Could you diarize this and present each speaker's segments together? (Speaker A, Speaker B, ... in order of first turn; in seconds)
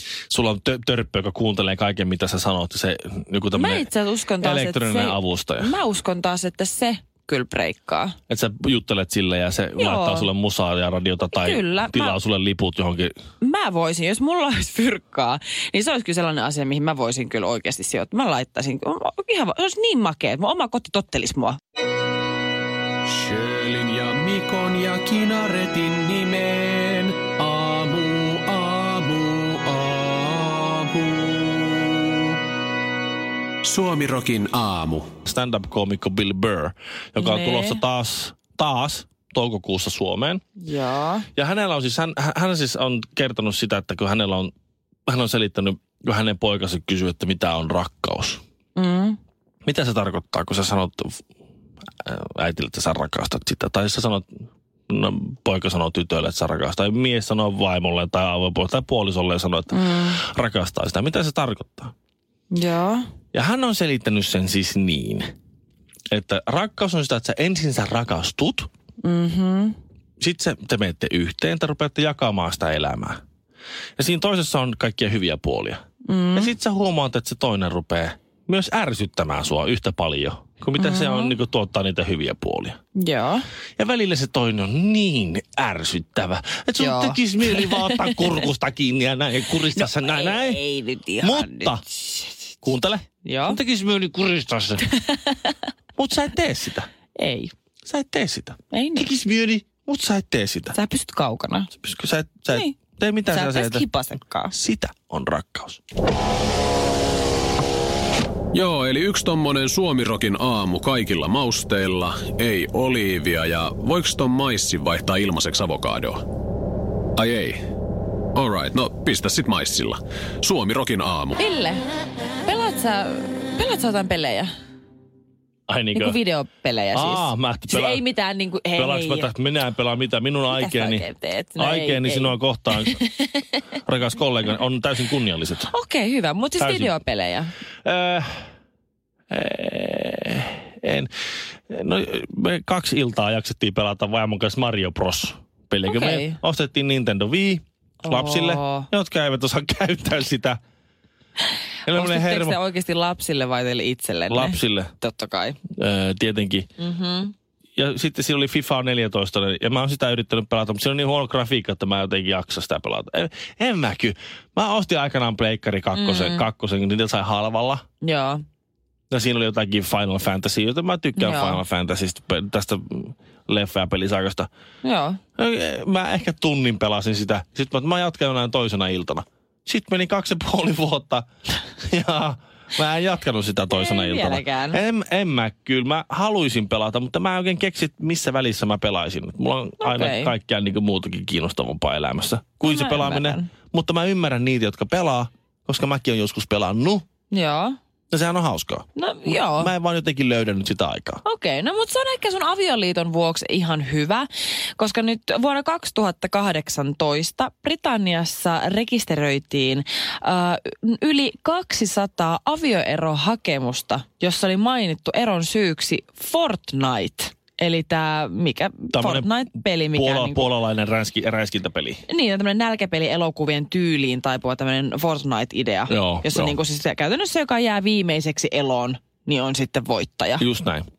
Speaker A: 0.3-3.9, 4.4-5.8, 8.3-13.1, 35.2-40.4, 41.4-44.5, 45.1-48.4, 49.6-51.2, 52.0-54.3, 54.9-61.9, 63.3-65.3, 66.1-68.7, 70.2-73.2, 74.0-75.8, 76.3-82.8, 83.8-90.6, 91.2-91.8, 92.6-94.8, 96.0-96.9, 97.8-100.8, 101.8-103.9, 104.5-105.8, 125.7-126.2, 126.9-128.0, 128.7-133.0, 133.8-135.7, 136.6-136.9, 137.8-138.4, 139.3-141.1, 141.7-150.6, 151.8-152.6, 154.3-154.9, 155.8-156.7, 157.8-167.8, 169.1-174.5, 175.4-181.2, 181.8-197.0, 198.1-201.2, 218.9-222.0, 225.9-226.6, 230.4-230.8
Speaker B: 3.5-8.2, 9.8-10.3, 11.2-12.2, 13.4-21.6, 37.2-37.8, 40.6-41.3, 48.7-49.2, 59.7-60.2, 62.5-63.0, 69.0-69.8, 76.0-76.5, 80.8-81.4, 82.9-83.5, 86.8-88.4, 89.7-92.3, 93.2-93.6, 94.9-95.5, 97.1-97.5, 98.7-99.1, 100.7-101.7, 102.5-102.8, 103.3-104.5, 121.4-121.8, 122.4-124.5, 125.9-129.3, 130.5-133.4, 135.7-137.5, 145.8-146.4, 148.0-148.9, 151.9-155.6, 156.8-157.3, 165.9-166.5, 168.0-168.4, 171.2-171.6, 174.8-175.2, 183.7-184.8, 189.8-190.3, 192.6-193.5, 197.3-197.8, 198.9-199.7, 201.2-220.5, 222.1-230.4
Speaker C: 23.1-32.4, 33.6-35.1, 108.5-116.2, 117.2-117.6, 118.3-121.4